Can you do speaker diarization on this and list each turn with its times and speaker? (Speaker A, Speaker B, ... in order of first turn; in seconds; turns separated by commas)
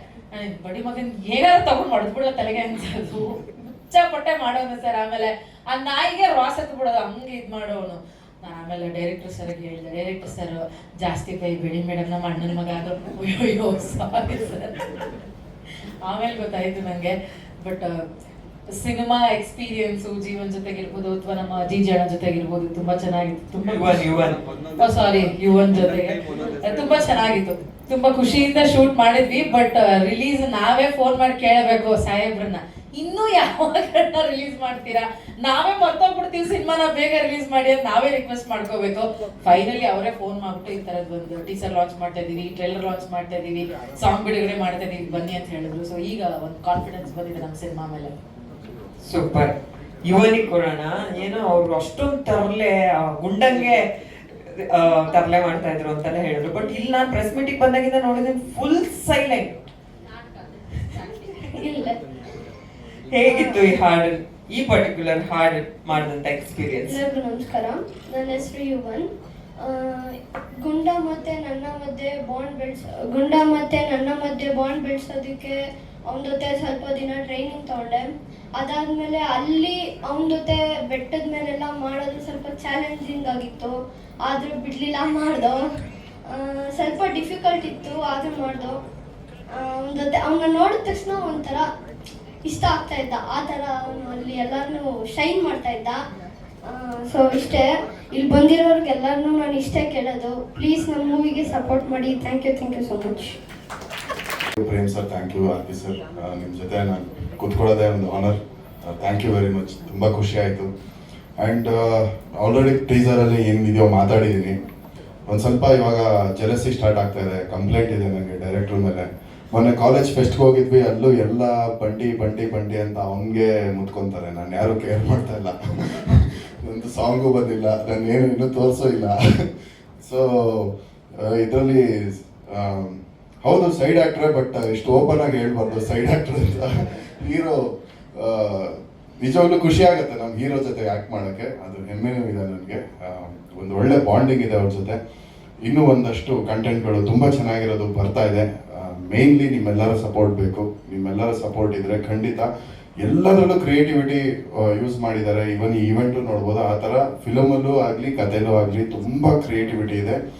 Speaker A: 0.3-14.9, Speaker A: 16.1-18.0, Speaker A: 18.7-24.1, Speaker B: 23.7-24.4, Speaker A: 24.7-48.1, Speaker B: 49.0-49.5, Speaker B: 50.0-53.8, Speaker B: 54.5-59.5, Speaker C: 61.2-62.0, Speaker B: 63.1-67.0, Speaker C: 63.2-63.7, Speaker C: 66.8-85.7, Speaker C: 86.2-88.8, Speaker C: 89.5-91.7, Speaker C: 92.4-96.0, Speaker C: 96.6-103.3, Speaker D: 104.6-110.7, Speaker D: 111.4-114.6, Speaker D: 115.3-129.5, Speaker D: 130.0-137.6, Speaker D: 138.1-145.0, Speaker D: 145.6-152.5, Speaker D: 153.0-160.2